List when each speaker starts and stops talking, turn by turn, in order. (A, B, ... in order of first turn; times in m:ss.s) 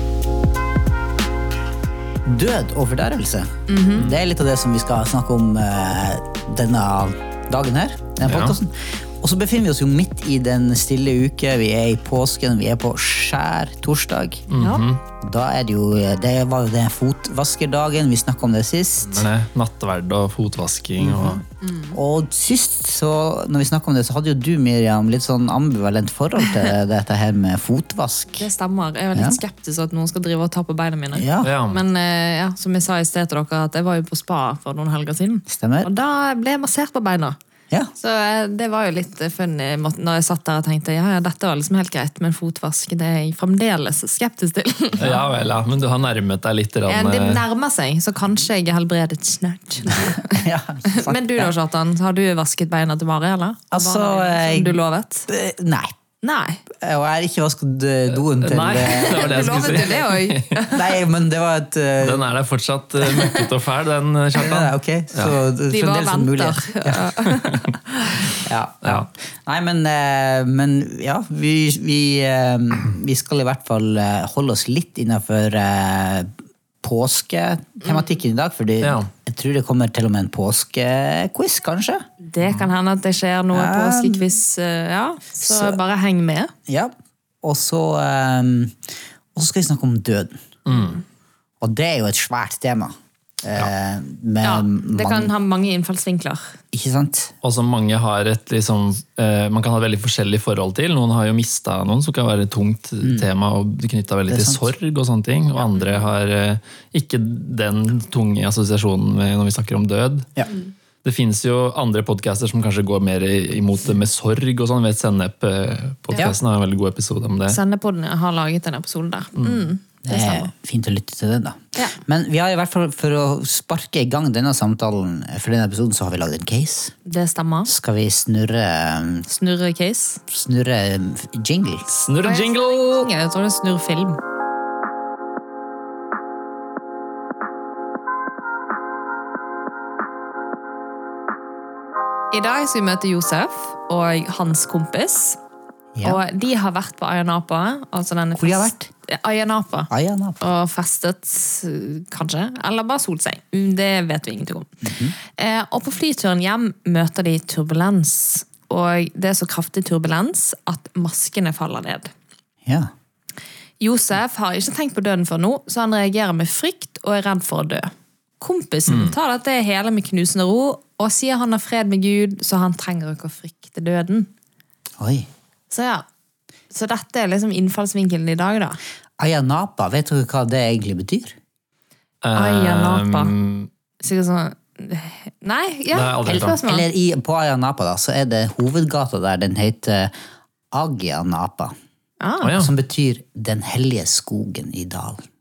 0:02.3-0:14.4 A
0:03.7-0:04.1 B
0:08.2-0:08.6 C
0:14.5-0:15.0 C
0:15.2-0:19.3 A
0:19.0-0:21.4 C
0:21.0-0:21.4 A
0:21.5-0:22.0 B
0:21.9-0:28.5 A
0:28.4-0:37.4 B
0:29.1-0:29.4 A
0:31.1-0:31.5 A
0:31.4-0:31.8 C
0:35.5-0:35.9 A
0:38.0-0:45.2 B
0:45.0-0:47.4 C
0:46.9-0:55.3 B
0:49.9-0:51.5 A
0:53.7-0:56.0 A
0:56.2-0:56.6 B
0:56.7-1:00.0 A
0:58.3-1:00.6 C
0:58.8-1:01.0 B
1:00.7-1:02.3 A
1:02.0-1:05.4 C
1:03.1-1:03.4 B
1:04.4-1:07.2 A
1:05.7-1:08.4 B
1:07.3-1:07.7 C
1:08.3-1:16.3 A
1:08.8-1:09.1 C
1:16.8-1:22.0 A
1:18.8-1:19.1 C
1:22.2-1:26.5 B
1:23.5-1:24.3 A
1:25.4-1:25.8 A
1:26.7-1:28.8 A
1:29.4-1:30.4 A
1:30.7-1:31.0 C
1:31.6-1:35.3 A
1:34.4-1:36.6 B
1:36.7-1:37.3 A
1:37.4-1:50.3 C
1:43.0-1:43.3 A
1:44.3-1:44.6 A
1:45.7-1:46.1 B
1:51.0-1:57.6 C
1:57.5-2:00.5 B
2:00.0-2:07.0 A
2:07.1-2:07.7 B
2:07.7-2:09.3 A
2:09.3-2:10.2 B
2:10.3-2:11.9 A
2:11.9-2:13.1 C
2:12.2-2:14.2 B
2:22.3-2:25.4 B
2:26.0-2:26.2 A
2:26.0-2:34.8 B
2:28.4-2:28.9 A
2:29.9-2:30.4 A
2:34.8-2:35.2 A
2:35.4-2:42.1 B
2:43.8-2:54.3 B
2:48.9-2:49.1 C
2:55.0-2:55.3 A
2:55.7-2:56.0 B
2:56.7-2:58.8 B
2:59.2-3:01.4 A
3:02.2-3:03.7 C
3:02.3-3:03.3 B
3:04.0-3:06.9 B
3:05.9-3:06.6 C
3:06.3-3:10.1 A
3:10.7-3:11.7 A
3:12.2-3:12.6 B
3:12.4-3:12.7 C
3:12.6-3:15.2 A